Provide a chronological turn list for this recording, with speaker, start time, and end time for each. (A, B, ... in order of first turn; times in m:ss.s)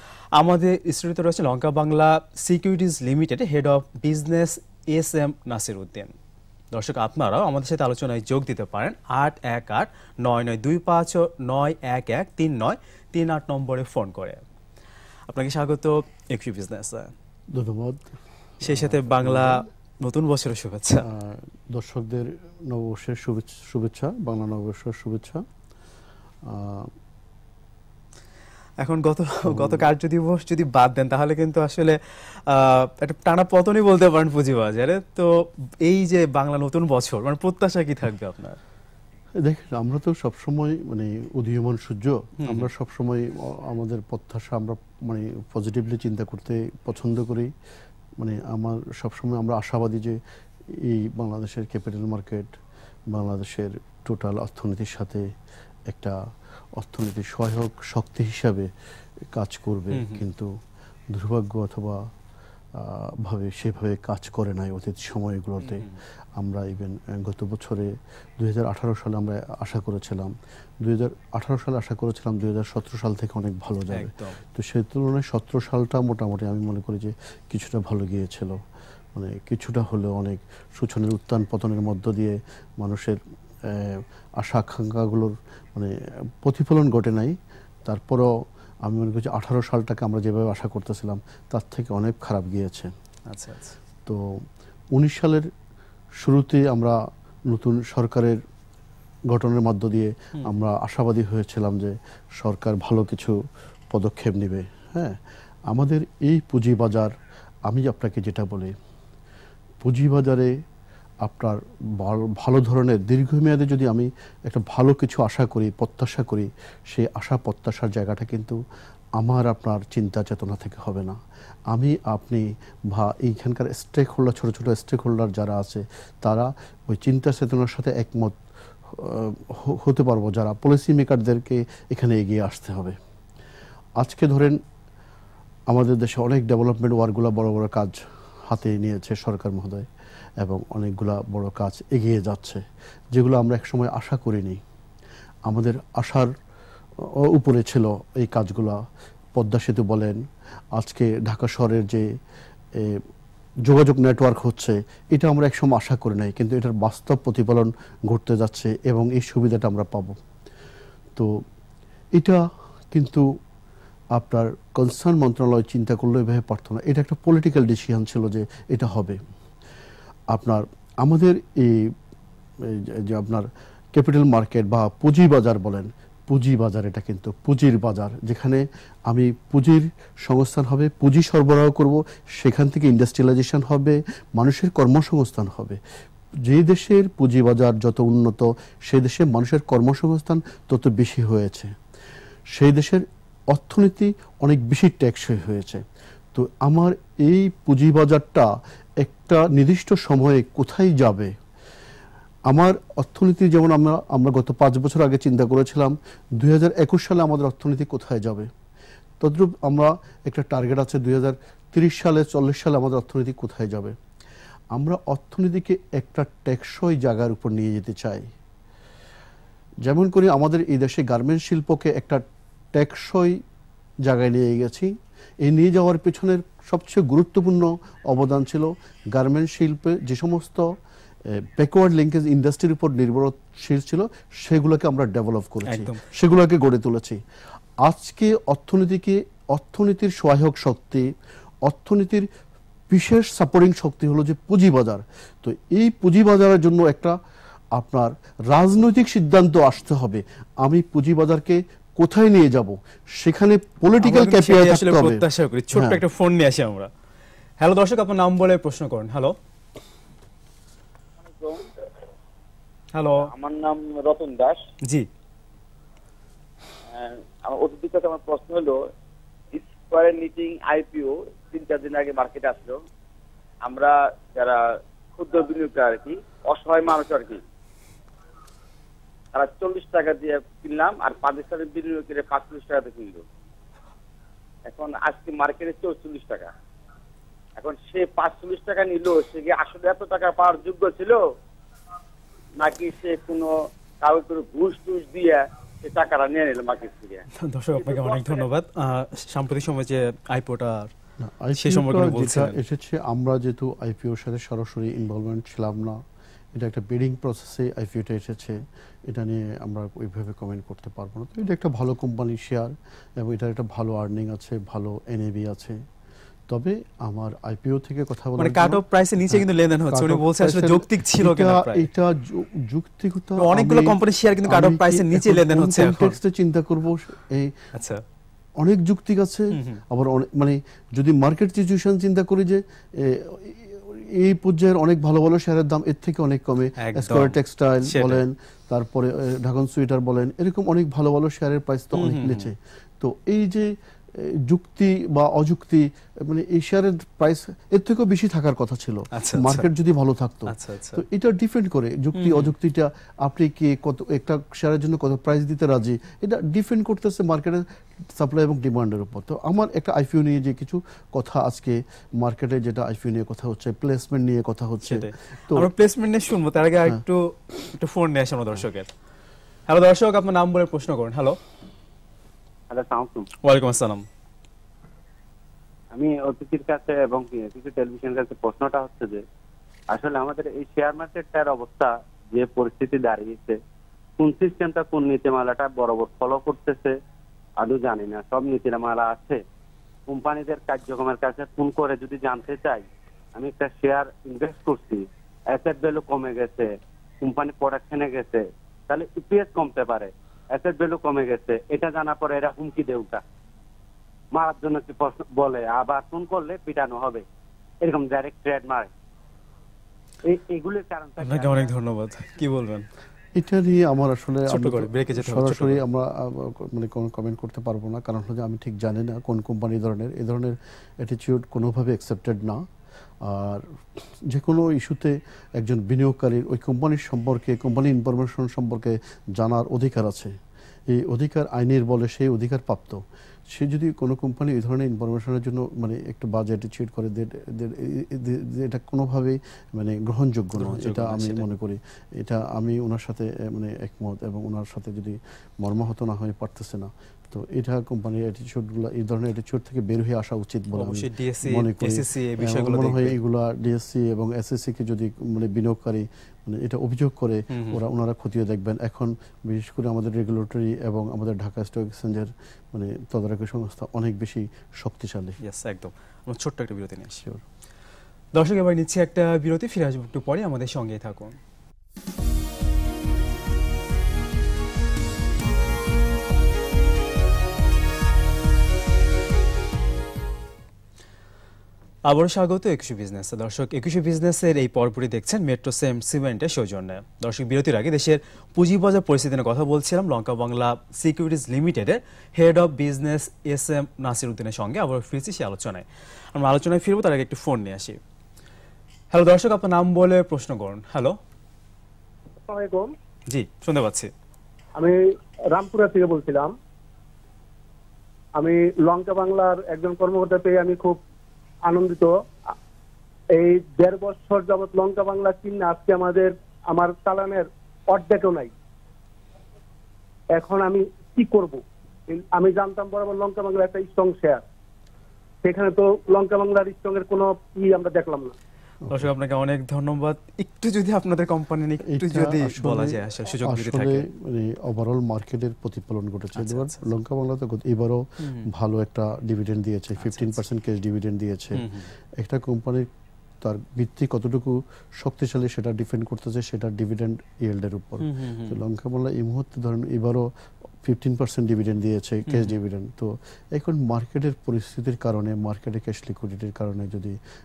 0:00.4-0:06.2 A
0:06.7-0:14.4 A
0:15.3-0:17.1 A
0:17.5-0:18.1 B
0:18.6-0:19.6 B
0:18.6-0:21.0 A
0:21.0-0:25.4 B
0:26.5-0:26.9 B
0:28.8-0:35.3 A
0:29.5-0:29.9 B
0:35.8-0:38.6 A
0:39.4-0:47.5 B
0:42.4-0:42.7 A
0:48.2-0:50.2 B
0:50.7-0:52.6 B
0:53.1-0:55.2 B
0:55.9-0:56.2 B
0:56.8-0:58.7 B
0:59.3-1:00.5 B
0:59.9-1:00.2 A
1:01.1-1:02.0 B
1:02.8-1:05.9 B
1:05.6-1:06.0 A
1:06.4-1:10.3 B
1:10.8-1:18.6 B
1:13.9-1:14.4 A
1:19.2-1:28.3 B
1:28.8-1:32.9 B
1:33.3-1:33.8 A
1:34.9-1:35.5 B
1:36.2-1:37.0 B
1:37.5-1:38.4 B
1:39.3-1:43.4 B
1:43.9-1:47.1 B
1:47.7-1:48.7 B
1:49.8-1:50.5 B
1:51.2-1:58.6 B
1:59.2-2:01.2 B
2:01.7-2:08.4 B
2:08.9-2:13.0 B
2:14.0-2:14.6 B
2:15.7-2:19.9 B
2:20.4-2:22.6 B
2:23.1-2:24.6 B
2:25.5-2:26.3 B
2:27.0-2:28.8 B
2:29.4-2:30.2 B
2:30.8-2:32.0 B
2:32.8-2:33.0 B
2:33.6-2:40.2 B
2:42.2-2:42.4 B
2:42.9-2:43.3 B
2:44.2-2:49.2 B
2:50.3-2:51.9 B
2:52.6-3:05.8 B
3:06.4-3:11.7 B
3:12.5-3:15.8 B
3:16.3-3:18.5 B
3:19.0-3:21.3 B
3:22.5-3:28.5 B
3:29.2-3:34.0 B
3:34.7-3:38.2 B
3:39.8-3:42.2 B
3:42.7-3:43.4 B
3:44.0-3:44.9 B
3:45.4-3:50.7 B
3:51.3-3:57.2 B
3:55.7-3:56.0 A
3:57.8-4:01.1 B
4:01.6-4:02.3 B
4:02.9-4:07.2 B
4:07.8-4:16.0 B
4:14.0-4:16.9 A
4:17.6-4:19.4 A
4:21.2-4:21.7 C
4:22.9-4:23.3 A
4:23.2-4:24.6 C
4:26.9-4:28.8 C
4:29.5-4:32.8 C
4:33.6-4:34.6 C
4:35.2-4:37.4 C
4:39.3-4:43.2 C
4:44.7-4:46.5 C
4:47.6-4:51.2 C
4:52.6-4:57.2 C
4:57.4-5:00.9 A
4:57.8-4:58.4 C
5:01.2-5:06.0 B
5:01.6-5:02.6 A
5:06.5-5:15.8 B
5:16.5-5:27.5 B
5:18.4-5:21.9 A
5:23.4-5:26.2 A
5:27.7-5:28.0 A
5:28.6-5:57.6 B
5:29.5-5:29.8 A
5:36.8-5:38.2 A
5:41.9-5:42.5 A
5:49.1-5:49.7 A
5:50.5-5:51.0 A
5:52.2-5:52.5 A
5:58.2-6:05.7 B
6:04.8-6:08.9 A
6:09.7-6:11.4 A
6:12.7-6:13.3 D
6:13.4-6:14.0 A
6:15.9-6:19.2 D
6:19.9-6:23.6 D
6:24.2-6:27.0 D
6:27.6-6:29.4 D
6:30.1-6:36.7 D
6:37.2-6:43.2 D
6:44.3-6:47.2 D
6:47.8-6:48.9 D
6:50.2-6:51.7 D
6:51.2-6:52.9 A
6:53.4-7:02.6 B
6:54.5-6:55.8 A
7:03.2-7:03.7 B
7:04.3-7:10.3 B
7:10.9-7:45.4 B
7:20.6-7:21.5 A
7:30.8-7:33.2 A
7:37.5-7:37.8 A
7:45.4-7:47.2 A
7:48.4-7:51.4 A
8:02.0-8:18.0 A
8:19.1-8:21.2 A
8:22.5-8:22.9 E
8:23.3-8:24.1 A
8:25.5-8:26.5 E
8:28.4-8:31.0 E
8:31.6-8:32.2 E
8:33.4-8:38.5 E
8:40.4-8:44.4 E
8:45.4-8:48.3 E
8:48.9-8:54.1 A
8:51.8-9:01.7 B
8:56.4-8:56.8 A
8:58.2-8:58.5 A
9:00.0-9:00.4 A
9:01.6-9:01.9 A
9:02.2-9:02.9 B
9:03.4-9:10.3 B
9:08.0-9:08.6 A
9:10.8-9:17.2 B
9:12.3-9:12.6 A